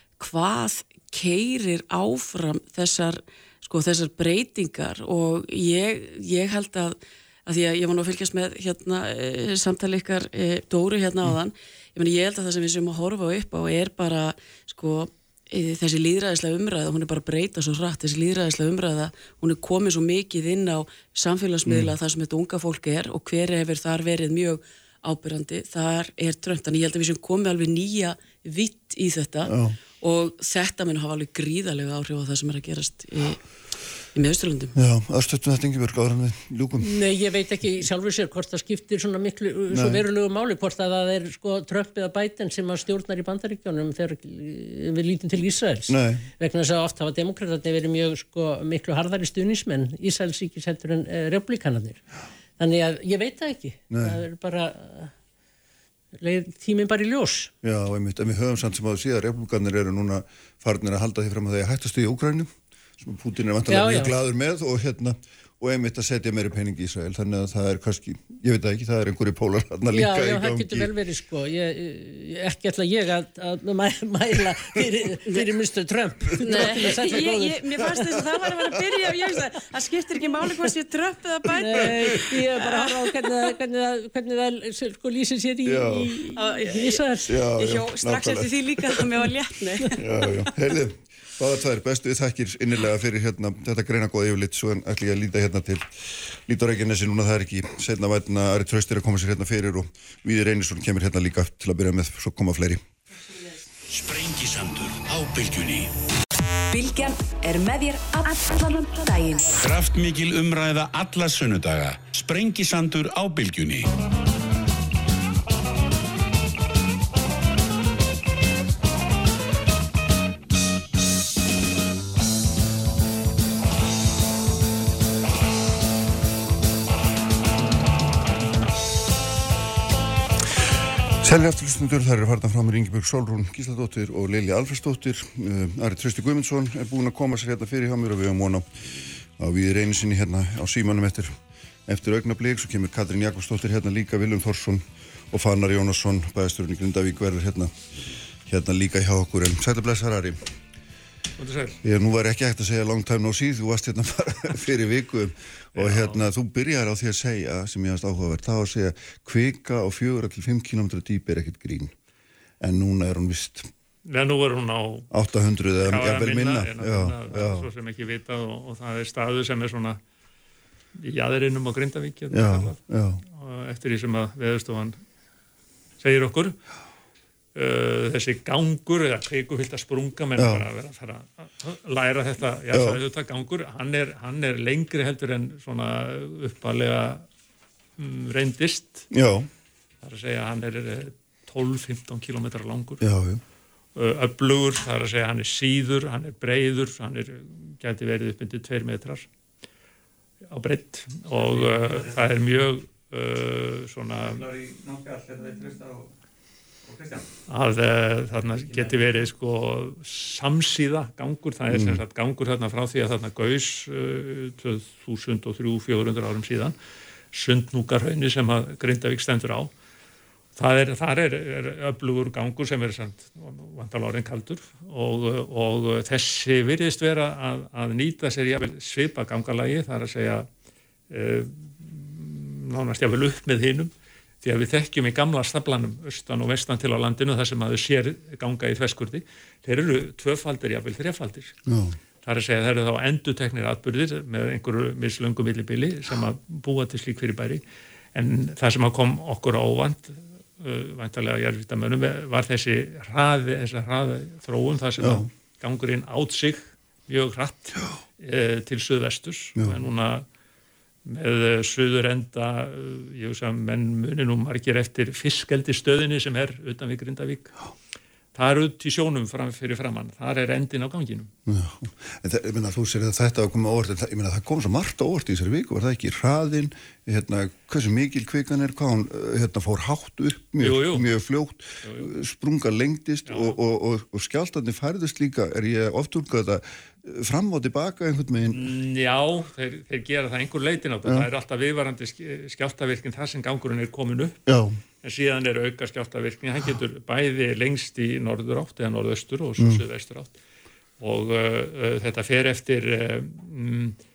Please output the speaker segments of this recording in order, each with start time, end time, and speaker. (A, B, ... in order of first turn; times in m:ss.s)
0:00.2-0:33.4 A
0:21.6-0:22.0 B
0:29.4-0:29.8 B
0:34.1-0:34.7 A
0:34.7-0:36.9 B
0:36.8-0:52.0 C
0:39.7-0:40.0 B
0:45.9-0:46.2 B
0:52.6-0:55.1 C
0:53.9-0:54.2 B
0:56.2-0:57.5 C
0:57.6-1:10.9 B
1:03.7-1:04.2 C
1:09.9-1:18.2 C
1:16.4-1:23.5 A
1:21.6-1:27.4 C
1:25.6-1:26.2 B
1:26.3-1:30.7 A
1:27.3-1:29.0 B
1:30.0-1:42.8 B
1:43.9-1:45.9 D
1:46.7-1:49.5 E
1:49.6-1:53.9 D
2:11.2-2:27.8 B
2:28.4-2:30.5 B
2:31.4-2:31.8 F
2:31.8-2:41.9 B
2:35.8-2:36.3 F
2:42.6-2:43.7 B
2:44.0-2:45.1 F
2:45.1-2:47.7 B
2:45.8-2:50.0 F
2:51.0-2:55.0 F
2:52.3-2:53.2 B
2:56.0-2:56.6 F
2:57.5-3:07.2 F
3:00.4-3:00.7 B
3:02.7-3:03.0 B
3:08.0-3:09.1 F
3:09.1-3:09.5 B
3:10.0-3:13.0 F
3:13.0-3:13.4 B
3:13.9-3:19.3 F
3:20.5-3:24.5 F
3:27.5-3:36.7 F
3:31.7-3:32.0 B
3:37.3-3:39.7 F
3:40.6-3:50.5 F
3:51.1-4:01.5 F
4:01.7-4:02.0 B
4:02.2-4:07.6 F
4:08.1-4:20.2 F
4:15.0-4:15.3 B
4:19.6-4:19.8 B
4:21.0-4:27.5 F
4:28.3-4:31.3 F
4:31.5-4:48.7 B
4:40.6-4:41.1 F
4:41.8-4:42.1 F
4:43.3-4:43.6 F
4:48.5-4:54.4 F
4:54.5-4:54.8 B
4:55.0-5:00.3 F
5:01.0-5:04.0 F